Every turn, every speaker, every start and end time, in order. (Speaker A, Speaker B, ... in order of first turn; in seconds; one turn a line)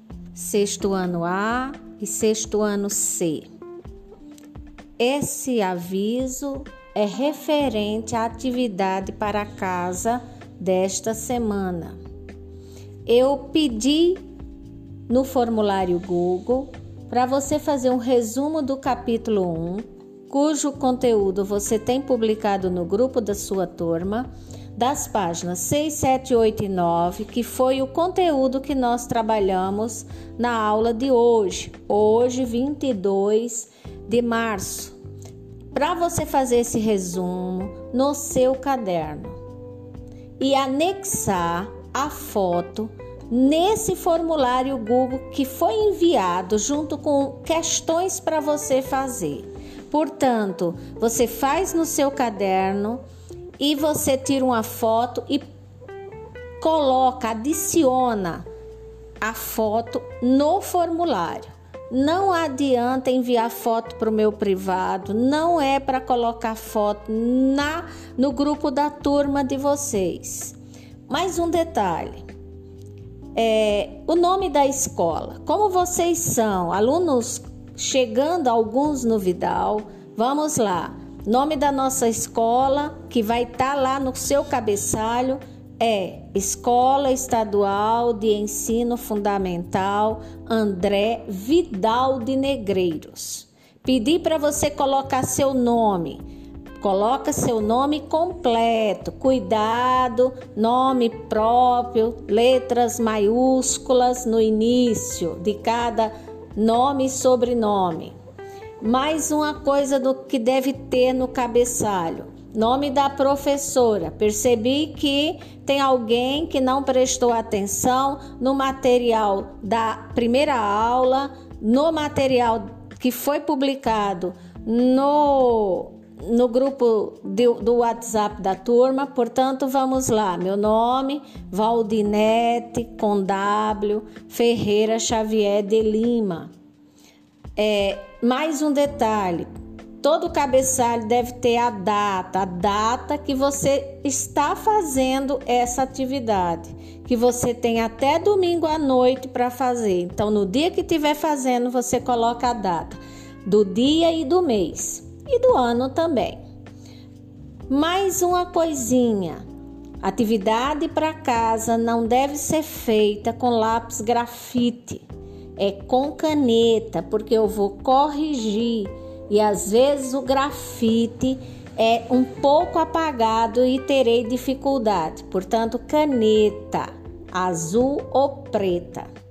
Speaker A: 0.3-3.5
Speaker A: 5.0-12.0
Speaker A: 13.1-14.2
Speaker A: 15.1-34.9
Speaker A: 35.7-39.4
Speaker A: 40.4-53.0
Speaker A: 53.6-55.4
Speaker A: 56.6-58.5
Speaker A: 59.2-70.5
Speaker A: 71.1-72.2
Speaker A: 73.3-96.2
Speaker A: 96.8-108.2
Speaker A: 108.8-136.5
Speaker A: 137.6-139.5
Speaker A: 140.0-156.4
Speaker A: 157.7-159.4
Speaker A: 160.0-165.0
Speaker A: 165.6-179.1